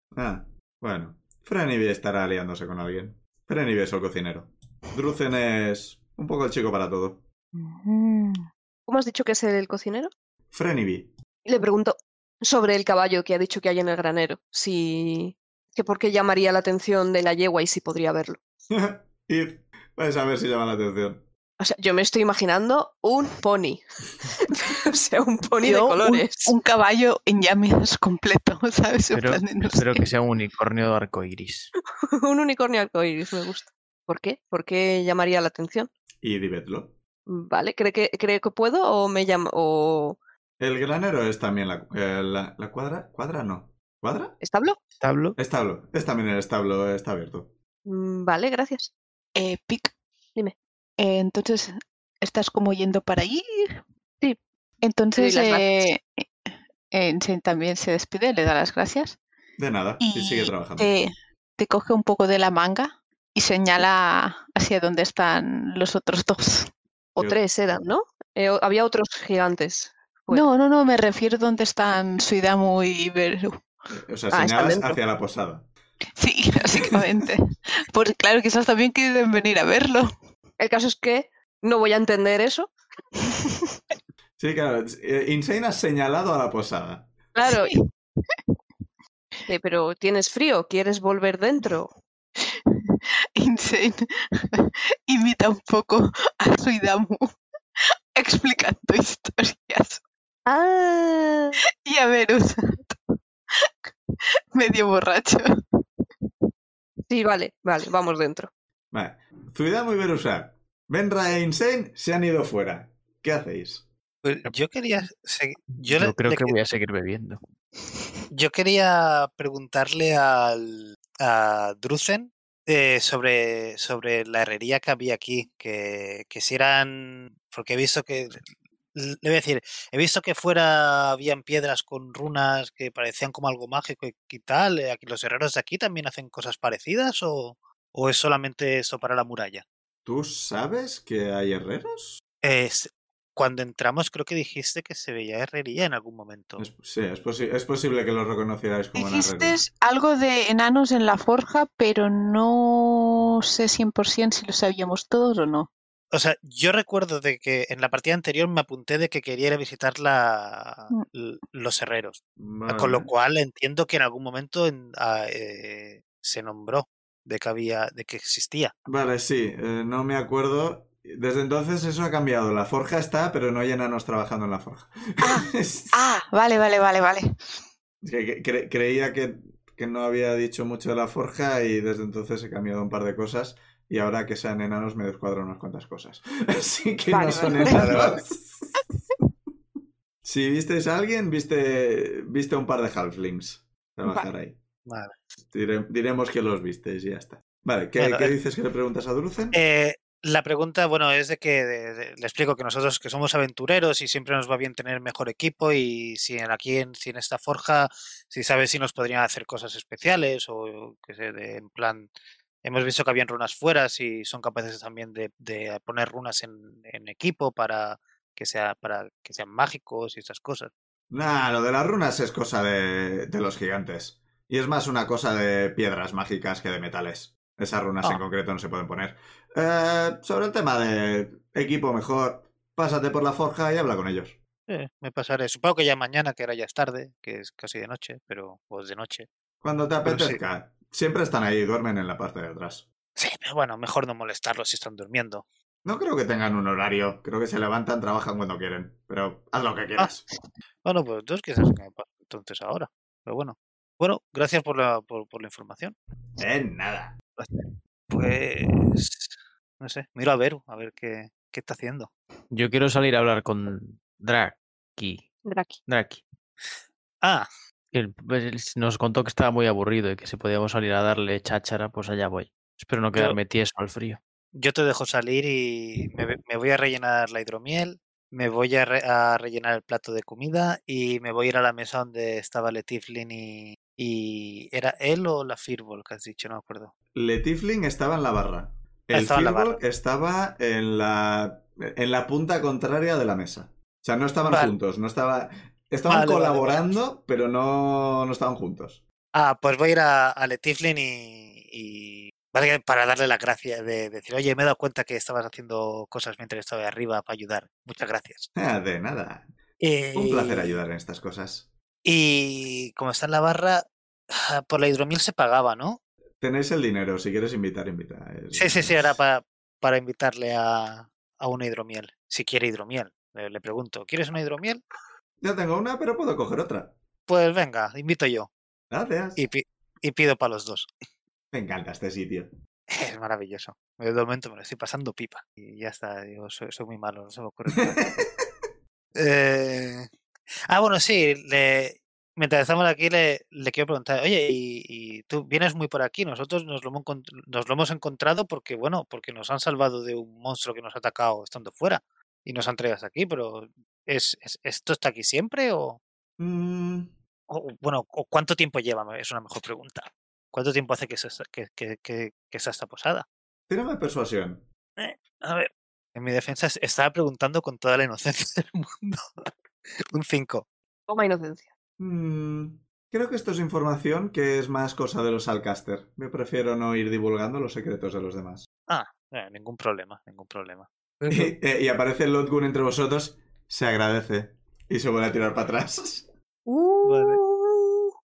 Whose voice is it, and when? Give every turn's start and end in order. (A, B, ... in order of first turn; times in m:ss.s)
0:00.1-0:07.2 A
0:07.5-0:08.4 B
0:08.9-0:10.1 C
0:10.5-0:11.1 A
0:11.4-0:18.4 C
0:18.7-0:21.2 A
0:21.6-0:26.5 C
0:25.6-0:30.0 B
0:29.1-0:31.7 D
0:32.1-0:35.9 C
0:36.2-0:36.9 A
0:37.3-0:40.2 C
0:40.6-0:44.4 A
0:44.4-0:44.8 C
0:45.0-0:45.4 D
0:45.4-0:47.5 A
0:47.8-0:48.9 C
0:49.4-0:49.9 B
0:51.0-0:53.8 B
0:54.8-0:56.2 B
0:55.2-0:55.7 C
0:56.9-0:59.2 B
0:59.6-1:00.9 A
1:00.0-1:06.7 B
1:07.2-1:10.5 C
1:10.3-1:13.7 B
1:13.9-1:15.7 A
1:14.3-1:15.0 C
1:16.2-1:20.1 B
1:20.6-1:22.7 C
1:24.4-1:27.1 A
1:27.3-1:27.7 C
1:27.4-1:28.4 B
1:29.5-1:31.9 C
1:32.4-1:37.4 B
1:38.2-1:40.0 B
1:40.4-1:41.6 C
1:41.8-1:43.0 B
1:43.6-1:43.9 B
1:44.5-1:45.5 B
1:47.1-1:48.5 C
1:48.9-1:53.8 A
1:54.2-1:56.6 E
1:55.8-1:57.4 D
1:58.3-2:08.4 E
2:08.9-2:19.6 E
2:20.0-2:22.2 A
2:22.4-2:26.6 E
2:26.6-2:29.6 A
2:28.9-2:35.7 B
2:36.1-2:48.7 E
2:42.4-2:43.1 A
2:48.8-2:56.0 A
2:55.2-2:57.3 B
2:58.0-3:08.8 A
3:07.1-3:08.0 B
3:07.6-3:08.1 E
3:10.2-3:14.6 A
3:14.8-3:15.2 E
3:15.5-3:19.6 A
3:18.0-3:18.3 E
3:19.5-3:32.1 E
3:32.6-3:40.7 E
3:41.1-3:54.4 A
3:54.7-3:59.3 E
3:59.6-4:02.8 A
4:00.0-4:00.4 E
4:03.2-4:05.4 E
4:05.8-4:10.2 A
4:10.8-4:16.0 E
4:16.4-4:17.2 A
4:18.1-4:22.1 E
4:22.5-4:25.3 D
4:25.4-4:25.8 C
4:25.9-4:26.2 D
4:27.2-4:27.5 E
4:27.9-4:34.2 D
4:34.5-4:46.9 E
4:47.1-4:59.0 A
4:49.1-4:49.8 E
4:54.5-4:54.7 E
4:56.1-4:56.9 E
4:59.3-5:08.5 E
5:08.6-5:09.5 A
5:09.8-5:10.8 E
5:10.1-5:11.7 A
5:12.0-5:16.0 E
5:16.4-5:19.1 A
5:18.5-5:24.8 E
5:25.4-5:26.9 A
5:27.3-5:28.5 E
5:28.9-5:29.4 A
5:29.4-5:30.9 E
5:31.5-5:32.5 A
5:32.9-5:38.2 E
5:38.0-5:38.2 A
5:39.1-5:40.1 E
5:40.7-5:56.0 E
5:56.4-5:57.1 A
5:57.5-6:03.2 E
6:03.7-6:04.6 A
6:05.0-6:09.5 E
6:10.1-6:10.7 E
6:11.1-6:11.7 C
6:12.0-6:18.7 A
6:18.9-6:21.5 E
6:21.3-6:26.2 A
6:26.6-6:28.1 C
6:27.0-6:27.4 E